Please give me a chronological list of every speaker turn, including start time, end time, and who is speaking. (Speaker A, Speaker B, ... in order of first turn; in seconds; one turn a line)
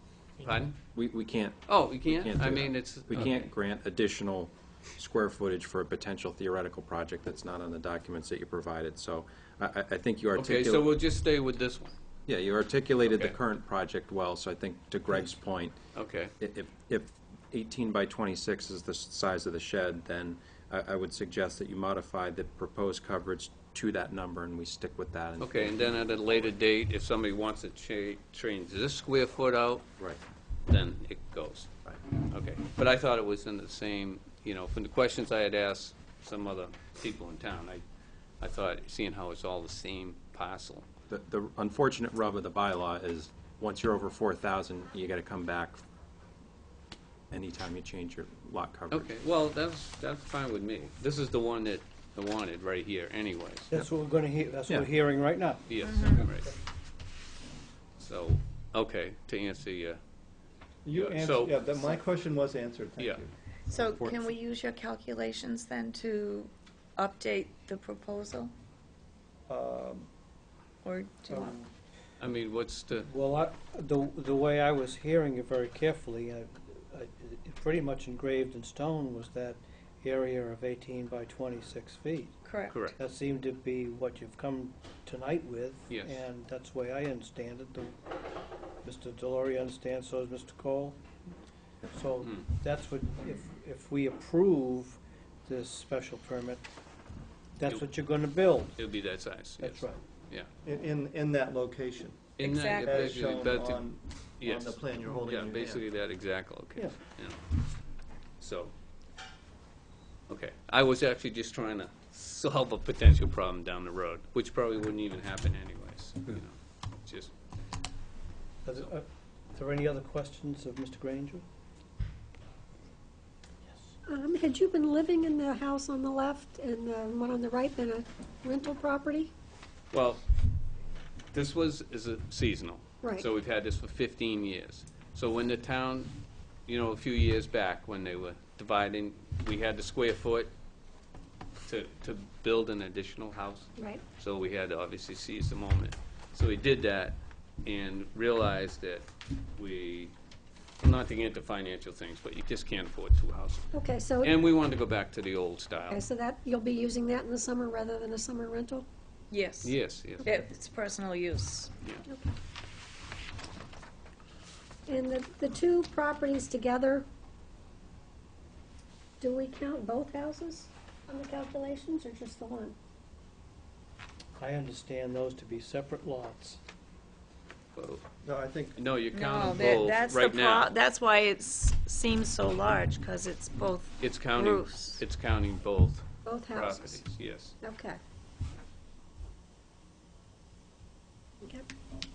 Speaker A: 0.4-0.8
Speaker B: 0.9-10.9
Speaker A: 1.7-3.5
Speaker A: 10.3-11.9
Speaker B: 12.3-15.8
Speaker A: 13.1-13.3
Speaker A: 15.9-16.3
Speaker B: 16.4-26.2
Speaker A: 25.4-29.9
Speaker A: 30.7-37.8
Speaker A: 38.4-40.9
Speaker B: 41.1-45.8
Speaker B: 47.3-49.1
Speaker A: 48.9-53.7
Speaker C: 53.7-55.6
Speaker A: 55.7-56.5
Speaker D: 55.8-56.2
Speaker A: 58.0-60.0
Speaker E: 60.9-64.0
Speaker A: 60.9-61.9
Speaker D: 63.7-68.5
Speaker E: 69.5-70.1
Speaker D: 70.8-71.6
Speaker E: 71.3-71.7
Speaker A: 72.2-73.1
Speaker C: 73.0-88.0
Speaker D: 82.5-82.9
Speaker A: 85.9-86.2
Speaker C: 88.8-91.0
Speaker C: 91.9-96.7
Speaker C: 97.6-98.8
Speaker A: 98.8-100.5
Speaker C: 99.6-100.0
Speaker E: 100.7-105.9
Speaker A: 102.4-103.9
Speaker D: 102.4-103.0
Speaker A: 104.4-107.5
Speaker A: 108.4-108.7
Speaker A: 110.3-117.3
Speaker C: 118.7-121.5
Speaker F: 124.1-129.3
Speaker A: 129.9-130.3
Speaker A: 131.3-136.1
Speaker A: 136.7-140.5
Speaker A: 141.6-150.2
Speaker F: 143.8-144.0
Speaker A: 150.8-156.0
Speaker F: 153.7-154.4
Speaker F: 155.9-158.9
Speaker D: 159.3-161.7
Speaker A: 159.6-160.3
Speaker F: 162.1-162.4
Speaker F: 164.9-167.1
Speaker F: 169.2-172.8
Speaker C: 174.4-176.6
Speaker A: 177.8-178.1
Speaker E: 178.2-178.8
Speaker A: 178.8-180.7
Speaker D: 179.1-185.0
Speaker A: 184.0-187.6
Speaker F: 186.2-188.0
Speaker F: 191.4-191.7